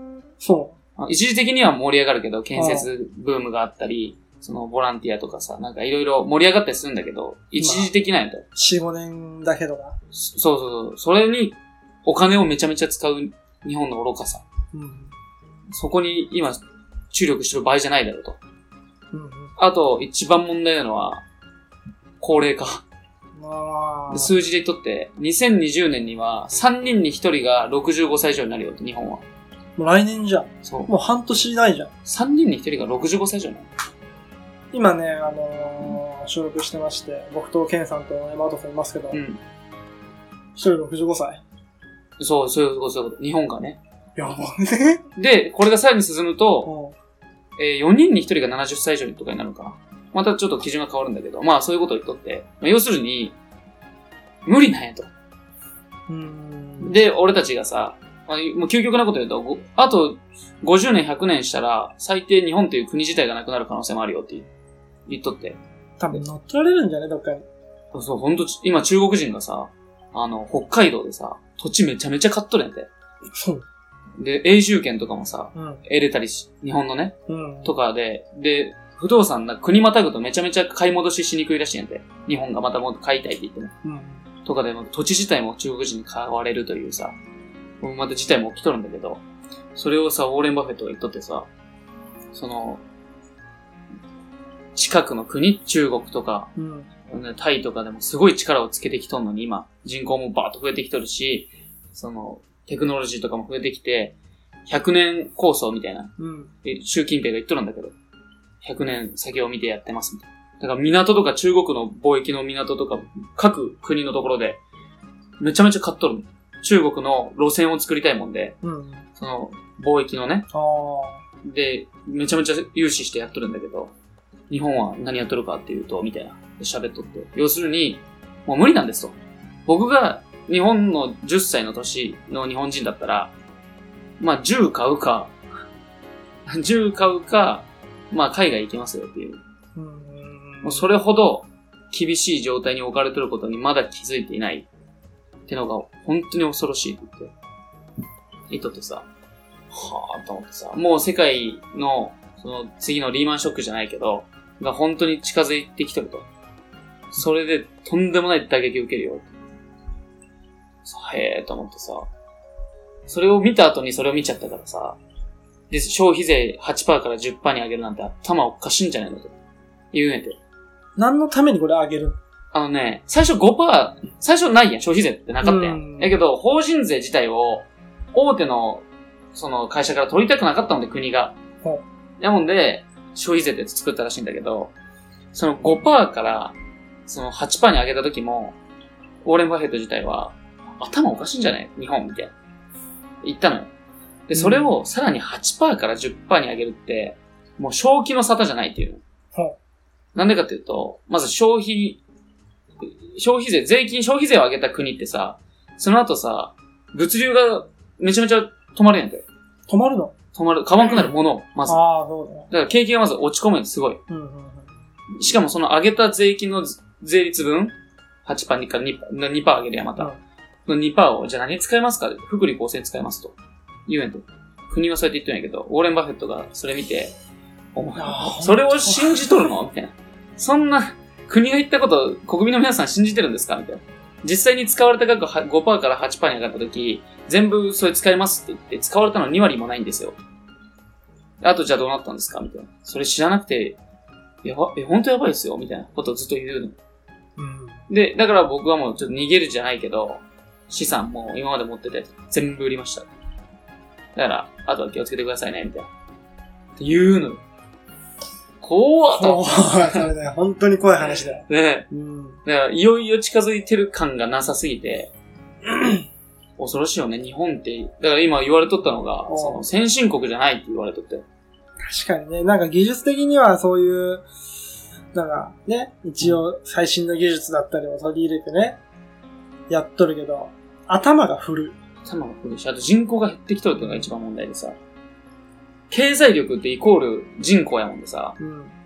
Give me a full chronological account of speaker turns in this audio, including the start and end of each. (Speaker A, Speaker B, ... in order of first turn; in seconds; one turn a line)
Speaker A: 0.4-0.8
Speaker B: 1.0-8.4
Speaker A: 2.5-2.9
Speaker A: 7.6-7.9
Speaker A: 8.6-9.9
Speaker B: 10.1-14.4
Speaker A: 14.7-15.1
Speaker B: 15.7-16.6
Speaker B: 17.1-18.4
Speaker A: 19.1-19.5
Speaker B: 19.6-21.2
Speaker B: 22.2-22.8
Speaker A: 23.4-24.3
Speaker B: 24.1-29.2
Speaker A: 29.8-31.9
Speaker B: 30.6-30.9
Speaker B: 32.0-33.7
Speaker A: 34.7-39.2
Speaker B: 39.1-39.4
Speaker A: 40.5-41.4
Speaker B: 42.2-43.8
Speaker A: 44.1-45.0
Speaker B: 45.1-46.7
Speaker A: 46.6-47.0
Speaker B: 47.6-53.4
Speaker B: 54.5-55.1
Speaker A: 56.1-57.0
Speaker B: 56.8-64.5
Speaker B: 65.1-65.6
Speaker A: 66.0-67.5
Speaker B: 67.9-72.9
Speaker A: 73.3-73.6
Speaker B: 74.2-83.7
Speaker A: 75.5-75.8
Speaker A: 77.3-77.7
Speaker A: 83.8-84.2
Speaker B: 84.4-87.2
Speaker B: 87.8-89.2
Speaker B: 89.7-91.5
Speaker B: 92.3-92.8
Speaker B: 94.7-96.5
Speaker A: 96.5-96.9
Speaker B: 97.1-104.2
Speaker B: 104.7-106.1
Speaker A: 106.2-106.5
Speaker B: 106.6-107.9
Speaker B: 108.6-114.6
Speaker B: 115.4-118.6
Speaker A: 118.6-119.0
Speaker B: 119.2-120.5
Speaker A: 120.5-121.2
Speaker B: 121.4-123.9
Speaker B: 124.5-129.2
Speaker B: 129.7-133.3
Speaker B: 134.2-135.3
Speaker B: 136.4-139.4
Speaker A: 139.8-140.9
Speaker B: 140.6-144.7
Speaker B: 145.5-147.3
Speaker B: 148.5-149.1
Speaker B: 149.7-156.3
Speaker B: 157.1-159.3
Speaker B: 160.8-162.1
Speaker B: 163.1-165.0
Speaker B: 165.7-169.3
Speaker B: 169.9-170.4
Speaker A: 170.9-172.2
Speaker B: 172.5-181.4
Speaker A: 175.4-176.1
Speaker B: 182.2-184.7
Speaker B: 185.3-186.6
Speaker B: 187.1-188.6
Speaker B: 189.2-192.3
Speaker B: 193.2-193.7
Speaker B: 194.3-199.0
Speaker A: 194.3-194.7
Speaker B: 200.1-202.0
Speaker B: 202.8-209.2
Speaker A: 209.7-210.1
Speaker B: 210.3-211.8
Speaker A: 211.7-212.5
Speaker B: 212.5-214.0
Speaker A: 214.1-214.7
Speaker B: 215.2-217.7
Speaker B: 218.2-220.1
Speaker B: 220.7-227.1
Speaker B: 227.7-240.2
Speaker A: 227.9-229.5
Speaker B: 241.4-243.8
Speaker B: 244.4-246.8
Speaker A: 247.4-247.8
Speaker B: 247.9-253.1
Speaker B: 254.2-255.9
Speaker B: 256.8-257.4
Speaker B: 258.6-260.1
Speaker A: 259.1-262.4
Speaker B: 261.4-261.9
Speaker B: 262.4-265.1
Speaker A: 265.6-266.0
Speaker B: 266.6-271.2
Speaker A: 269.3-269.6
Speaker A: 271.8-274.2
Speaker A: 275.1-278.8
Speaker A: 279.7-281.8
Speaker B: 282.0-284.8
Speaker A: 283.8-284.1
Speaker B: 285.9-288.4
Speaker A: 288.4-288.7